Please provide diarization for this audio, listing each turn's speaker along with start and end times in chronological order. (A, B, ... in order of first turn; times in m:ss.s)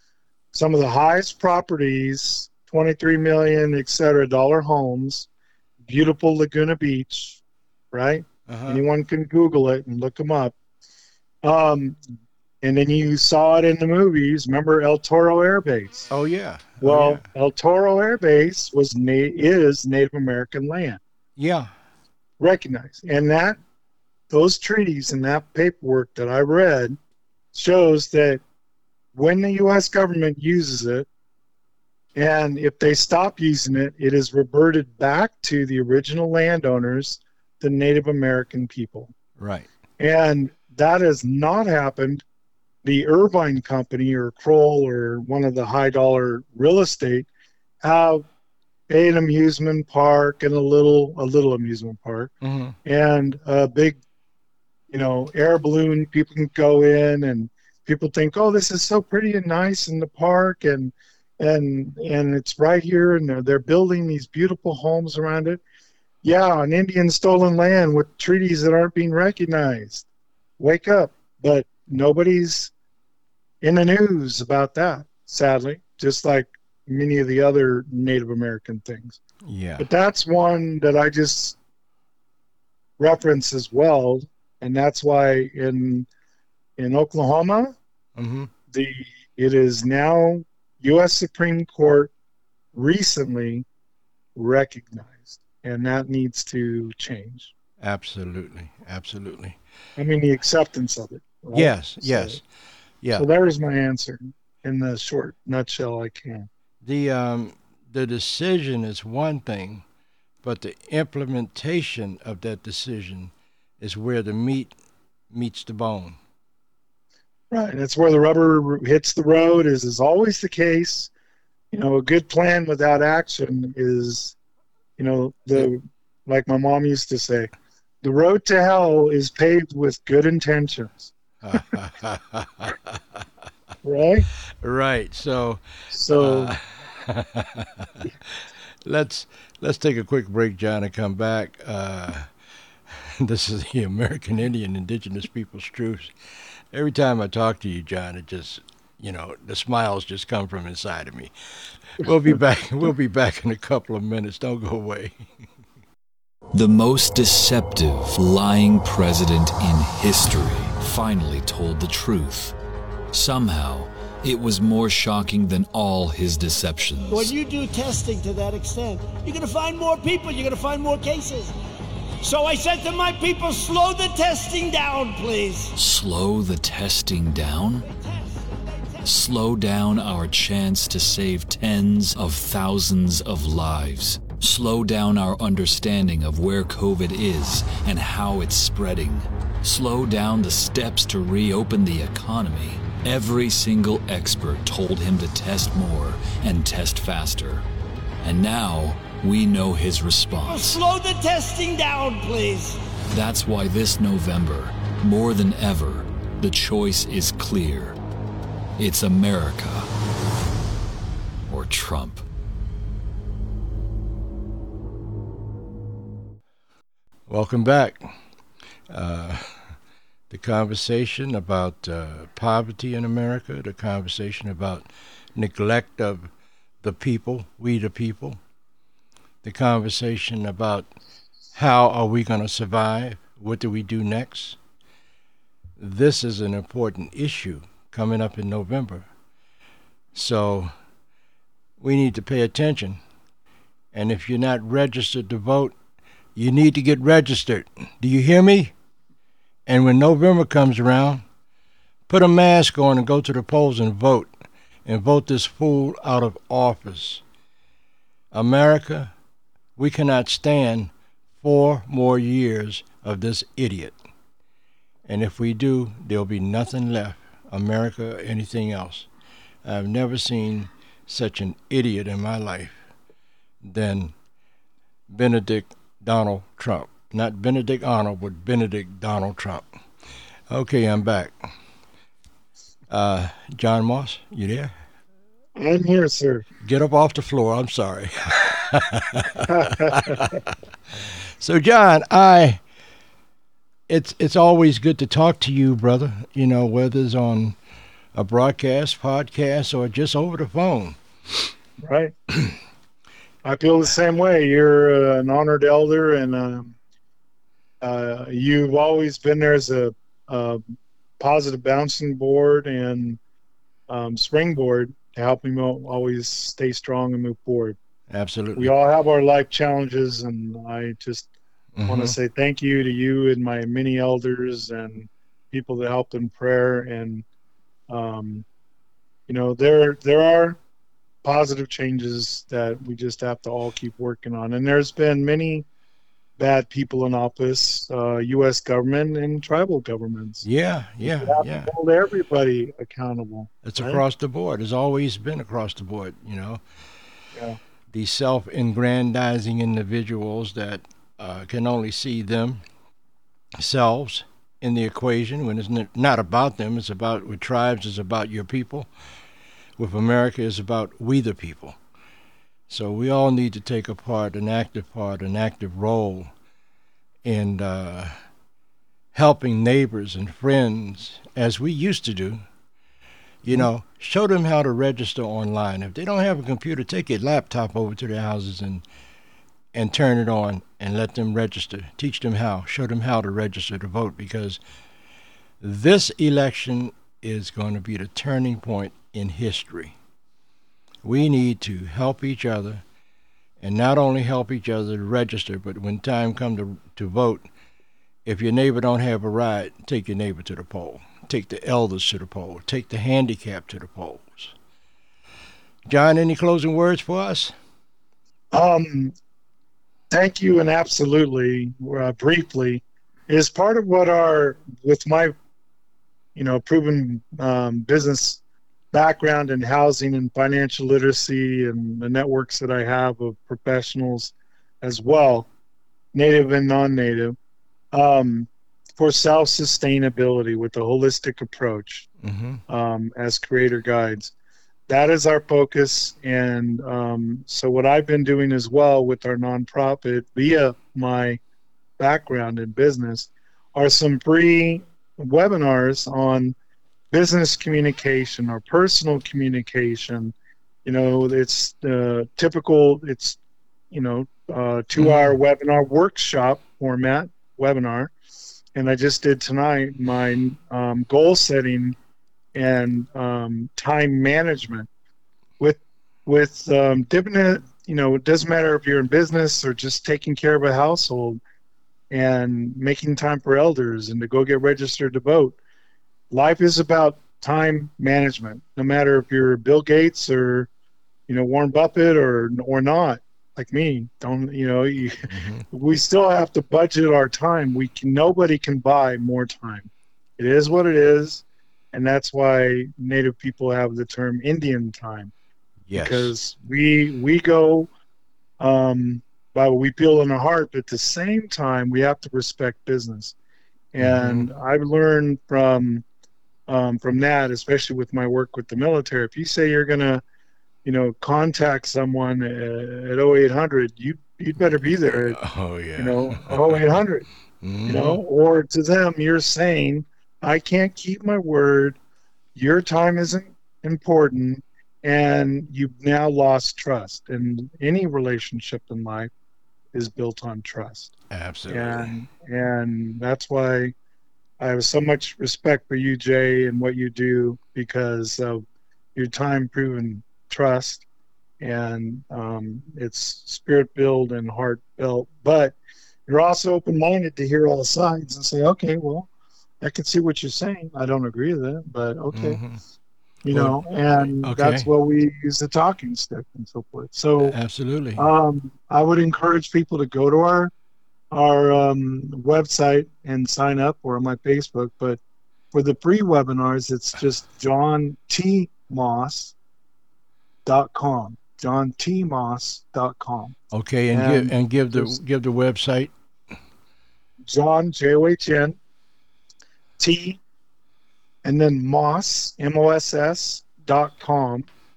0:00.5-0:05.3 A
0:05.9-0:07.4 A
0:07.9-0:10.5 A
0:08.5-0:08.8 B
0:11.4-0:12.0 A
0:12.6-0:16.1 A
0:16.1-0:17.2 B
0:16.8-0:21.0 A
0:21.4-0:21.7 B
0:22.4-0:23.6 A
0:24.3-0:27.0 A
0:27.5-0:28.4 A
0:29.1-0:31.1 A
0:32.2-0:39.1 A
0:39.4-0:39.7 B
0:40.0-0:42.2 A
0:42.8-0:47.3 A
0:47.8-0:48.3 A
0:48.9-0:52.3 A
0:52.4-0:52.8 B
0:52.8-0:54.0 A
0:54.9-1:05.6 A
1:06.2-1:10.1 A
1:10.6-1:12.7 A
1:13.6-1:19.2 A
1:19.4-1:19.9 B
1:19.8-1:21.6 A
1:23.0-1:26.1 A
1:26.8-1:27.8 A
1:28.2-1:28.5 B
1:28.7-1:32.1 A
1:32.7-1:33.6 A
1:34.4-1:37.5 A
1:37.8-1:39.6 B
1:40.0-1:42.4 A
1:41.5-1:42.4 B
1:43.1-1:46.5 A
1:46.8-1:49.8 B
1:50.4-1:54.7 B
1:55.3-1:56.2 B
1:57.5-2:01.1 A
2:01.7-2:04.4 A
2:05.0-2:07.5 A
2:08.0-2:11.1 A
2:11.4-2:13.2 B
2:13.8-2:14.3 A
2:14.6-2:18.3 B
2:15.9-2:16.5 A
2:18.8-2:22.3 B
2:22.9-2:26.1 B
2:26.7-2:31.3 B
2:31.9-2:35.3 B
2:36.5-2:42.6 C
2:43.1-2:47.3 C
2:47.1-2:51.6 D
2:52.2-2:55.7 D
2:55.8-2:57.9 C
2:59.0-3:17.6 C
3:18.2-3:20.8 C
3:20.5-3:22.8 D
3:23.1-3:28.0 C
3:28.8-3:29.9 C
3:31.5-3:32.3 C
3:37.3-3:38.1 B
3:38.9-3:39.8 B
3:40.3-3:46.3 B
3:46.8-3:48.4 B
3:49.4-3:50.9 B
3:51.5-3:54.6 B
3:55.8-3:59.1 B
4:00.1-4:00.7 B
4:01.8-4:03.0 B
4:03.9-4:05.7 B
4:06.4-4:08.7 B
4:09.7-4:11.2 B
4:12.1-4:14.3 B
4:14.9-4:17.2 B
4:18.3-4:19.1 B
4:19.8-4:20.9 B
4:21.4-4:24.0 B
4:25.1-4:29.1 B
4:29.6-4:32.8 B
4:33.6-4:34.1 B
4:35.1-4:39.6 B
4:40.5-4:41.5 B
4:42.9-4:44.7 B
4:45.6-4:46.4 A
4:46.6-4:50.5 B
4:49.5-4:50.3 A
4:51.4-4:52.6 B
4:53.9-4:57.6 B
4:58.2-5:01.0 B
5:01.8-5:02.1 A
5:03.4-5:06.8 A
5:07.8-5:13.2 A
5:13.9-5:17.8 A
5:18.1-5:18.7 B
5:18.6-5:21.3 A
5:21.8-5:22.2 B
5:21.9-5:27.2 A
5:27.9-5:28.4 A
5:29.3-5:30.6 A
5:31.2-5:35.7 A
5:36.4-5:40.4 A
5:40.4-5:41.7 B
5:41.0-5:44.0 A
5:43.6-5:46.6 B
5:47.9-5:52.6 B
5:53.6-5:58.9 B
5:59.8-6:01.8 B
6:02.7-6:06.3 B
6:07.2-6:08.2 B
6:09.1-6:12.4 B
6:13.4-6:18.8 B
6:19.7-6:24.6 B
6:25.6-6:30.0 B
6:31.0-6:32.8 B
6:33.6-6:37.4 B
6:38.3-6:44.5 B
6:45.9-6:47.5 B
6:48.5-6:49.1 A
6:50.1-6:55.3 A
6:56.4-6:58.4 A
6:58.9-7:05.5 A
7:06.1-7:07.4 A
7:07.9-7:12.1 A
7:12.2-7:12.6 B
7:12.7-7:14.3 A
7:14.9-7:21.4 A
7:22.0-7:26.6 A
7:27.1-7:30.3 A
7:30.8-7:33.4 A
7:33.9-7:38.1 A
7:35.0-7:35.4 B
7:38.8-7:42.0 A
7:42.6-7:44.9 A
7:45.6-7:51.4 A
7:52.1-7:55.6 A
7:56.3-8:00.7 A
8:01.3-8:15.3 A
8:05.3-8:05.6 B
8:15.9-8:16.3 B
8:15.9-8:17.9 A
8:18.6-8:23.4 A
8:23.9-8:26.0 A
8:24.0-8:24.5 B
8:26.7-8:30.2 A
8:30.8-8:35.4 A
8:35.1-8:36.8 B
8:36.0-8:37.3 A
8:37.6-8:38.2 B
8:37.9-8:42.0 A
8:42.6-8:49.3 A
8:49.9-8:51.1 A
8:51.3-8:52.1 B
8:51.7-8:53.9 A
8:54.6-8:58.6 A
8:59.2-9:01.0 A
9:01.6-9:05.8 A
9:06.3-9:09.3 A
9:09.8-9:12.6 A
9:12.3-9:12.8 B
9:13.4-9:17.6 A
9:13.5-9:14.9 B
9:17.4-9:18.3 B
9:18.2-9:20.7 A
9:21.3-9:25.2 A
9:25.7-9:29.5 A
9:30.7-9:33.6 A
9:33.7-9:36.1 B
9:34.1-9:35.2 A
9:37.5-9:38.8 A
9:40.0-9:40.4 A
9:41.4-9:44.7 A